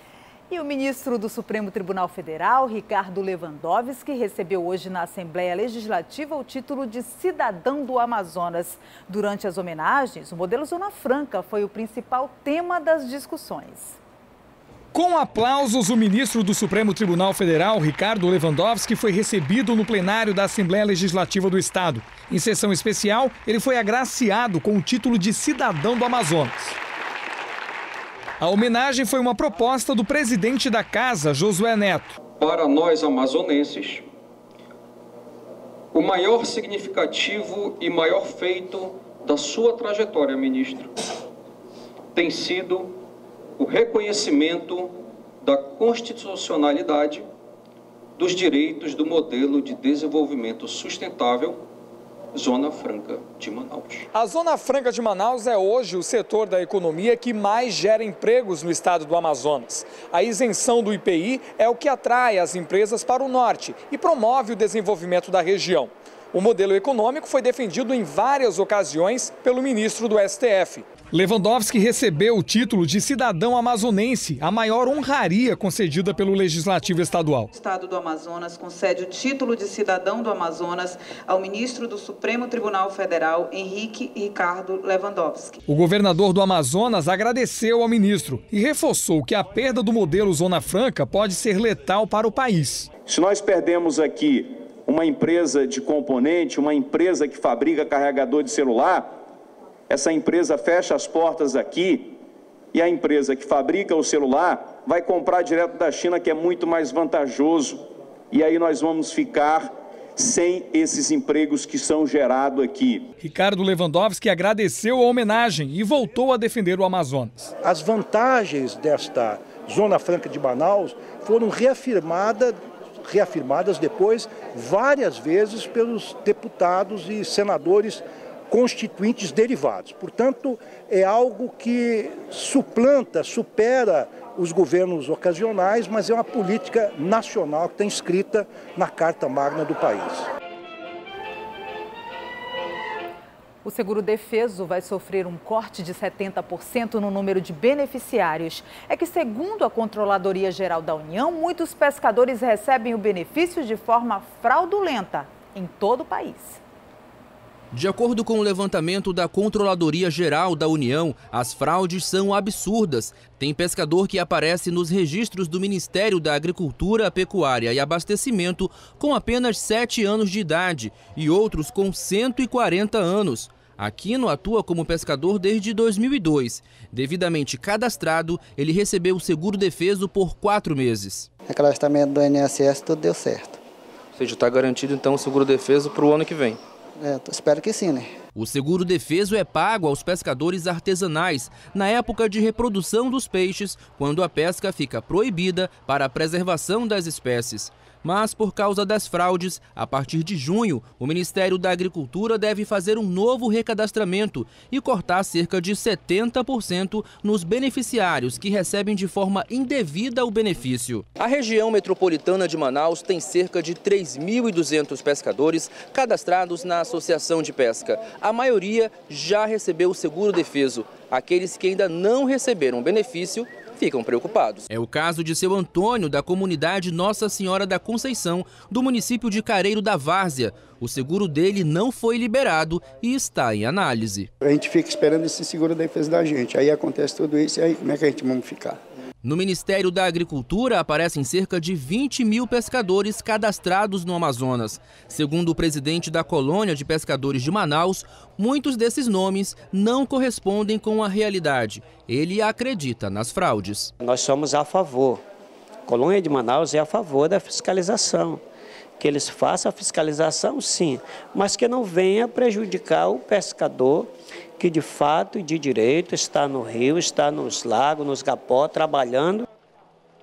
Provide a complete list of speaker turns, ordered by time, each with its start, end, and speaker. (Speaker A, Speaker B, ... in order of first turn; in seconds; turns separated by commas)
Speaker A: 0.5-14.0, Speaker B: 14.9-26.8, Speaker B: 28.4-32.2, Speaker C: 32.4-34.0, Speaker C: 35.9-40.9, Speaker C: 42.1-43.0, Speaker C: 43.6-47.2, Speaker C: 48.2-51.6, Speaker C: 52.3-54.0, Speaker B: 54.1-77.5, Speaker D: 77.6-85.5, Speaker B: 85.7-92.9, Speaker E: 93.0-99.1, Speaker E: 99.9-102.1, Speaker E: 102.7-113.0, Speaker B: 113.2-117.5, Speaker F: 117.6-140.2, Speaker A: 143.6-156.6, Speaker G: 157.7-181.3, Speaker H: 181.5-183.6, Speaker G: 184.2-186.6, Speaker H: 187.0-188.1, Speaker G: 188.3-234.3, Speaker I: 234.4-238.8, Speaker G: 239.2-253.9, Speaker J: 254.0-255.2, Speaker J: 255.9-258.4, Speaker J: 259.0-269.4